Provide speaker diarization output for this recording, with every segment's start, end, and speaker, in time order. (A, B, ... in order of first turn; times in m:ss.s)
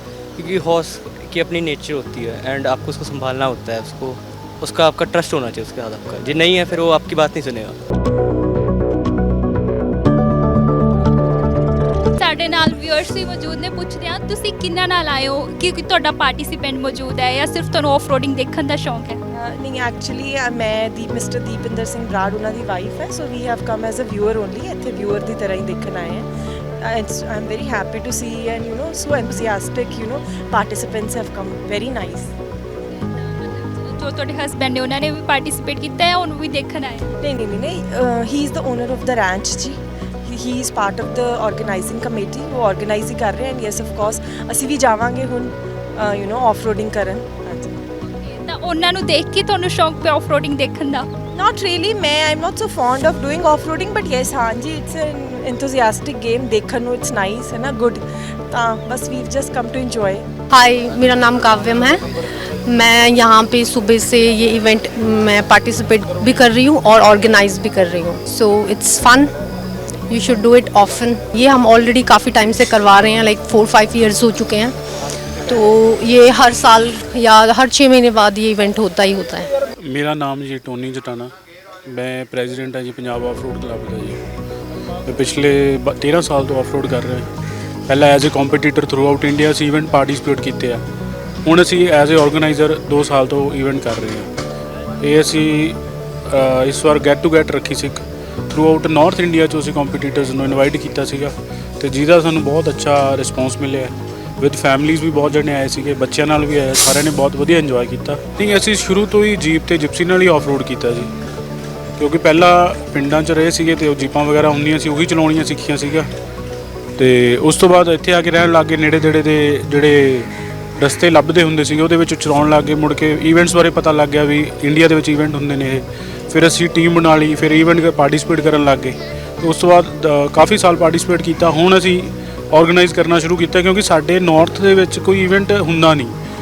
0:00.4-0:07.8 A
0:12.2-0:19.2 B
0:19.3-0:26.3 C
0:26.8-0:32.3 C
0:33.0-0:37.1 B
0:37.2-0:47.8 C
0:48.0-0:51.1 B
0:51.3-1:00.2 C
1:00.5-1:02.0 D
1:02.7-1:09.3 D
1:10.1-1:14.7 D
1:15.5-1:19.5 D
1:19.8-1:21.3 E
1:21.9-1:24.2 E
1:25.1-1:27.2 E
1:27.9-1:30.8 E
1:31.5-1:34.3 E
1:35.0-1:38.0 E
1:38.5-1:51.1 E
1:52.0-1:56.1 E
1:57.0-2:16.1 E